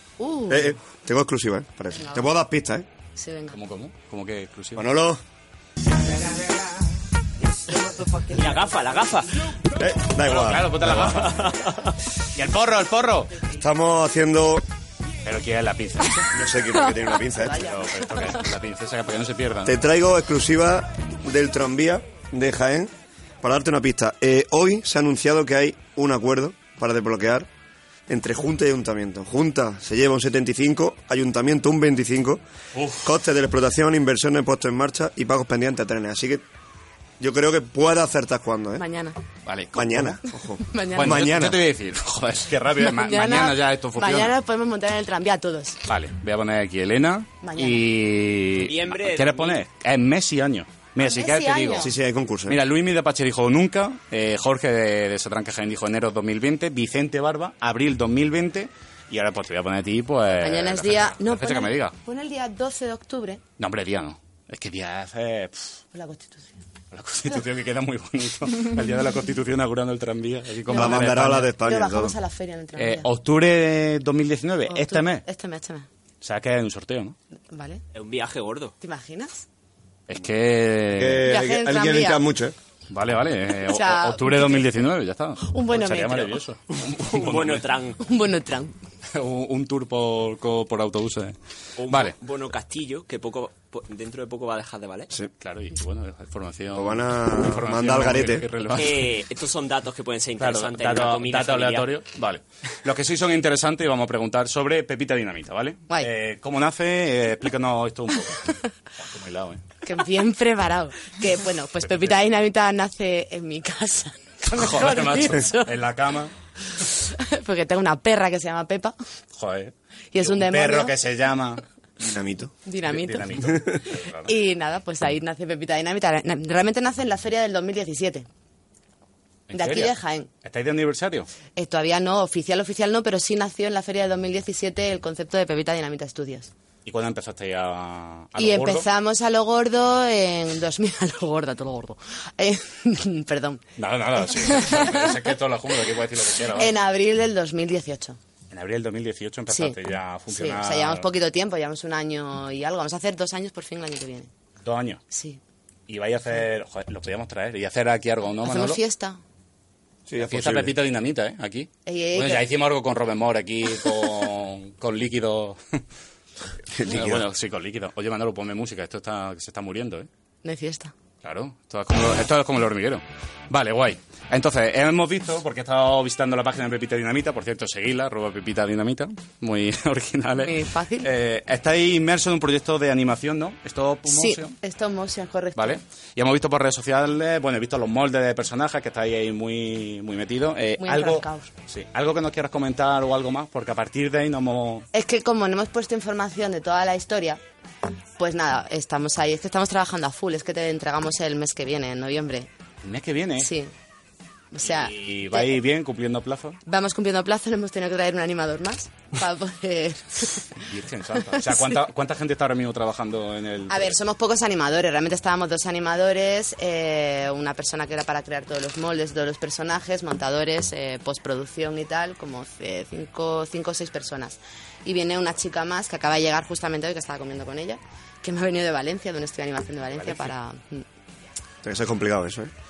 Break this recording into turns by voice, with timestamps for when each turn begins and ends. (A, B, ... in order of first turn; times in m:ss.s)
0:00.2-0:00.8 A
0:00.5-0:02.8 B
0:03.2-0:03.6 A
0:03.5-0:04.9 C
0:04.8-0:05.2 B
0:08.3-0:09.3 D
0:09.8-0:11.3 B
0:10.2-0:11.5 C
0:11.1-0:11.8 D
0:12.3-0:13.3 C
0:13.6-0:14.6 B
0:15.2-0:16.3 C
0:16.3-0:17.7 B
0:17.4-0:18.3 A
0:17.5-0:19.8 C
0:19.6-0:22.9 B
0:23.4-0:27.5 B
0:28.1-0:32.4 B
0:32.8-0:33.1 C
0:33.0-0:36.4 B
0:37.2-0:38.8 B
0:38.8-0:39.2 A
0:39.4-0:40.0 C
0:39.7-0:41.6 B
0:40.6-0:41.2 A
0:41.0-0:44.3 C
0:42.8-0:45.8 A
0:45.9-0:51.9 C
0:47.4-0:47.8 A
0:48.5-0:49.6 D
0:51.0-0:51.9 A
0:51.8-0:52.6 B
0:52.5-1:01.9 C
1:00.4-1:03.4 A
1:03.6-1:05.8 C
1:05.9-1:06.6 A
1:06.9-1:11.5 C
1:10.7-1:12.2 B
1:10.7-1:11.0 A
1:11.6-1:13.1 A
1:12.8-1:15.2 C
1:14.7-1:15.9 A
1:16.2-1:17.2 C
1:17.5-1:17.8 A
1:17.9-1:18.7 D
1:18.8-1:19.4 A
1:20.1-1:21.2 C
1:20.9-1:22.5 B
1:21.2-1:22.2 A
1:22.9-1:27.6 C
1:23.7-1:24.6 A
1:25.4-1:26.4 A
1:27.1-1:28.0 D
1:28.0-1:28.7 A
1:29.1-1:32.1 C
1:31.8-1:35.1 D
1:35.4-1:39.1 C
1:36.7-1:38.5 B
1:38.7-1:41.9 D
1:40.4-1:49.6 C
1:49.8-1:55.7 A
1:51.8-1:52.1 C
1:54.5-1:56.3 C
1:56.8-1:59.0 A
1:59.3-2:01.6 C
2:00.1-2:00.9 A
2:02.0-2:02.5 B
2:02.6-2:03.3 A
2:02.9-2:04.3 C
2:04.2-2:08.3 A
2:09.5-2:11.3 C
2:09.5-2:10.3 A
2:11.6-2:16.5 A
2:16.8-2:18.9 C
2:18.4-2:23.6 A
2:23.8-2:26.7 C
2:24.3-2:25.1 A
2:26.5-2:28.2 A
2:28.5-2:31.1 C
2:29.5-2:29.8 A
2:30.3-2:34.3 A
2:34.6-2:35.0 C
2:35.1-2:35.4 A
2:35.9-2:38.8 C
2:38.4-2:39.2 A
2:40.1-2:40.7 B
2:40.2-2:45.6 C
2:41.8-2:42.5 A
2:46.7-2:47.2 B
2:46.8-2:50.1 C
2:50.4-2:50.9 A
2:51.2-3:04.6 C
3:00.4-3:01.1 A
3:04.1-3:05.8 A
3:05.6-3:14.9 C
3:10.8-3:11.5 A
3:14.9-3:17.4 A
3:18.2-3:22.5 A
3:22.8-3:23.5 C
3:23.4-3:23.7 A
3:24.5-3:25.6 A
3:24.6-3:26.6 C
3:26.6-3:30.5 A
3:30.6-3:34.0 C
3:31.3-3:31.7 A
3:33.7-3:50.8 A
3:49.9-3:50.3 C
3:51.6-3:52.5 B